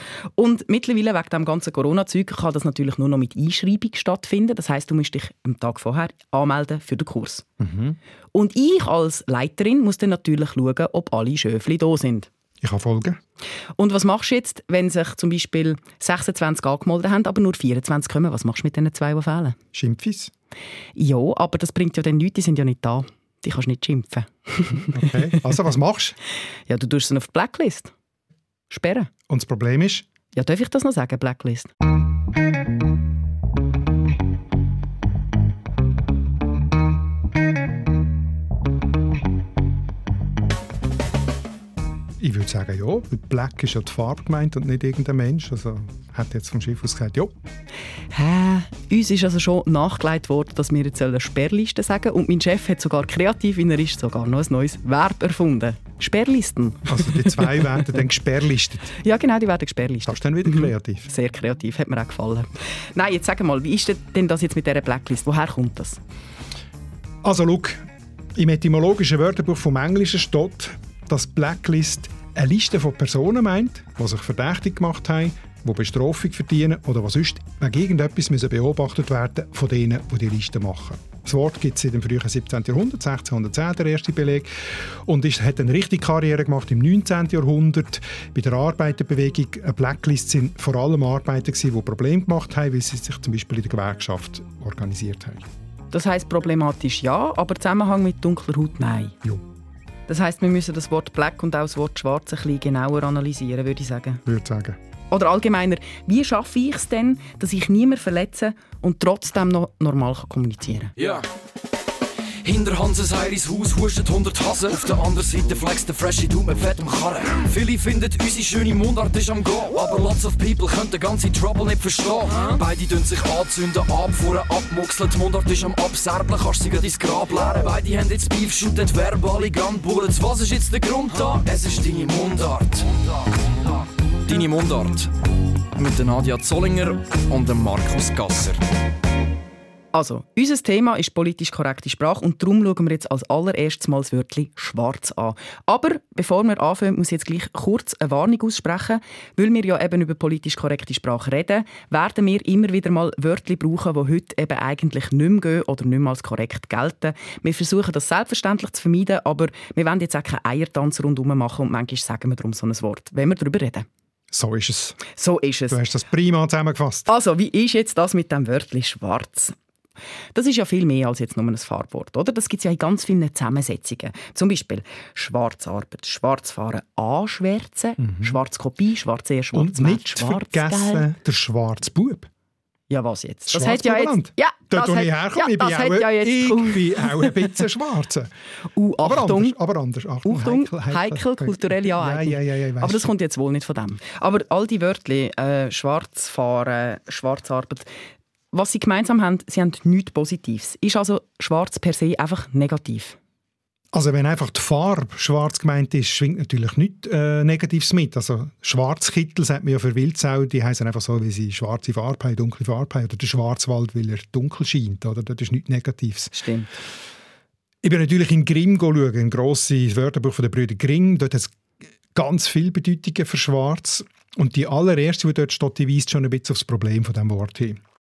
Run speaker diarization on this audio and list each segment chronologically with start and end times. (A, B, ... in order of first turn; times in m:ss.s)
0:00.4-0:07.4 A
0:07.6-0:08.0 B
0:08.3-0:12.3 A
0:12.6-0:13.2 B
0:13.8-0:19.6 A
0:19.7-0:20.3 B
0:21.0-0:25.4 A
0:24.9-0:26.2 B
0:26.7-0:27.9 A
0:28.7-0:29.1 A
0:29.3-0:30.1 B
0:30.3-0:31.7 A
0:42.2-0:47.3 B
0:48.1-0:57.9 A
0:56.9-0:58.9 B
0:59.0-1:06.0 A
1:00.1-1:01.1 B
1:07.2-1:07.8 B
1:08.4-1:35.5 B
1:35.9-1:39.2 A
1:40.1-1:44.2 A
1:44.3-1:44.8 B
1:45.1-1:50.9 A
1:51.0-1:51.3 C
1:52.4-2:15.1 C
2:15.8-2:18.6 C
2:19.9-2:43.9 A
2:44.3-2:45.0 B
2:45.2-2:45.8 A
2:45.7-2:47.1 B
2:47.1-2:49.6 A
2:50.4-3:01.1 A
2:58.0-2:58.4 B
2:59.5-3:02.3 B
3:02.9-3:07.5 A
3:03.5-3:08.3 B
3:08.8-3:09.5 A
3:09.0-3:13.1 B
3:10.2-3:17.9 A
3:18.5-3:23.2 A
3:23.9-3:36.4 B
3:36.4-3:36.7 A
3:37.8-3:41.6 B
3:42.1-3:47.8 B